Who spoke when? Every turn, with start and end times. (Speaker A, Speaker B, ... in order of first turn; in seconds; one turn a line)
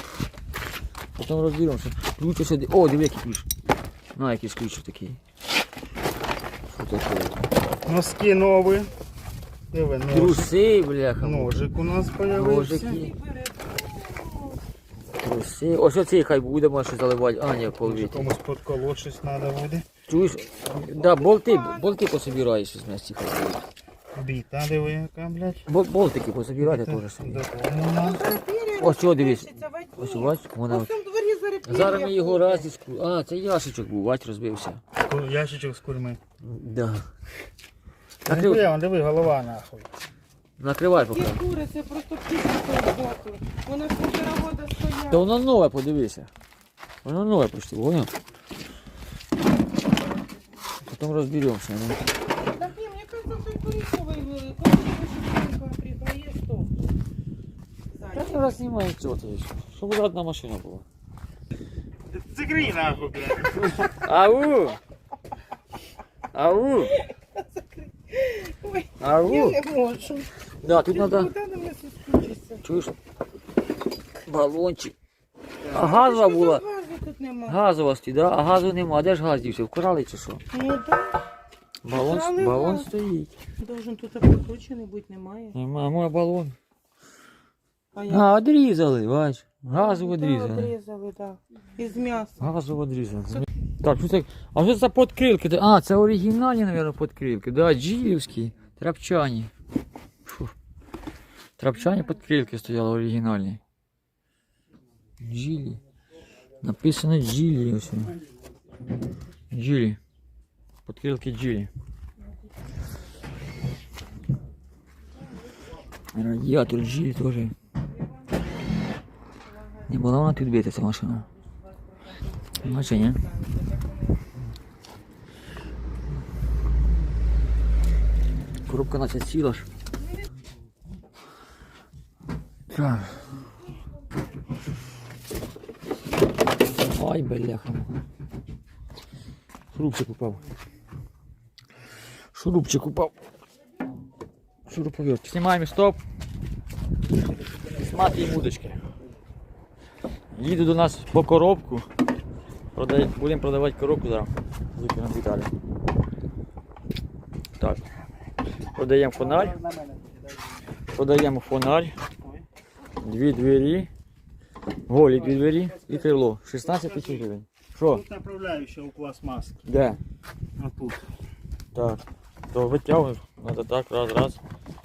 Speaker A: 1.2-3.5
Speaker A: 4.1-5.2
Speaker A: 6.7-7.4
Speaker B: 7.8-8.9
Speaker B: 9.7-10.5
Speaker A: 10.1-11.6
Speaker B: 11.2-13.0
Speaker A: 12.2-13.1
Speaker C: 12.9-14.6
Speaker A: 15.2-18.3
Speaker B: 17.6-19.9
Speaker A: 20.1-23.6
Speaker C: 21.0-22.4
Speaker B: 24.1-25.7
Speaker A: 25.7-27.4
Speaker B: 26.6-28.4
Speaker C: 27.9-32.6
Speaker A: 28.8-30.9
Speaker A: 31.7-34.8
Speaker B: 35.0-36.2
Speaker A: 36.4-37.1
Speaker A: 38.3-38.6
Speaker B: 38.3-39.9
Speaker A: 40.6-41.4
Speaker C: 41.0-45.3
Speaker A: 45.1-46.3
Speaker A: 47.0-48.1
Speaker A: 50.8-52.0
Speaker C: 52.5-56.7
Speaker C: 57.9-58.5
Speaker A: 58.1-60.9
Speaker B: 62.1-64.0
Speaker A: 64.0-64.8
Speaker A: 66.3-67.0
Speaker C: 67.0-72.6
Speaker A: 69.0-69.6
Speaker A: 70.6-71.3
Speaker A: 72.6-72.9
Speaker A: 74.3-75.0
Speaker C: 75.7-77.6
Speaker A: 75.7-76.6
Speaker A: 77.5-80.4
Speaker C: 80.5-81.2
Speaker A: 81.8-83.3
Speaker C: 82.0-82.9
Speaker C: 83.6-85.6
Speaker A: 85.5-86.5
Speaker C: 88.0-88.3
Speaker A: 88.1-90.7
Speaker C: 89.8-92.5
Speaker A: 92.4-99.5
Speaker A: 100.3-100.5
Speaker A: 101.6-103.6
Speaker A: 105.2-105.8
Speaker A: 106.6-108.2
Speaker A: 109.5-110.0
Speaker A: 110.9-111.7
Speaker A: 116.1-117.5
Speaker C: 117.8-118.7
Speaker C: 119.5-119.9
Speaker A: 119.9-121.3
Speaker C: 121.2-124.3
Speaker A: 122.6-123.2
Speaker A: 128.7-129.7
Speaker C: 130.0-130.3
Speaker A: 132.7-133.2
Speaker A: 136.8-137.9
Speaker A: 139.7-140.4
Speaker A: 142.3-143.2
Speaker A: 144.7-146.0
Speaker A: 147.8-148.8
Speaker A: 150.3-151.9
Speaker A: 152.8-155.5
Speaker A: 157.6-157.8
Speaker A: 158.7-159.6
Speaker B: 159.1-160.7
Speaker A: 160.9-162.0
Speaker A: 163.0-163.9
Speaker A: 164.9-168.0
Speaker B: 165.1-167.3
Speaker B: 167.9-169.6
Speaker A: 169.7-170.0
Speaker B: 170.6-171.0
Speaker A: 171.7-174.4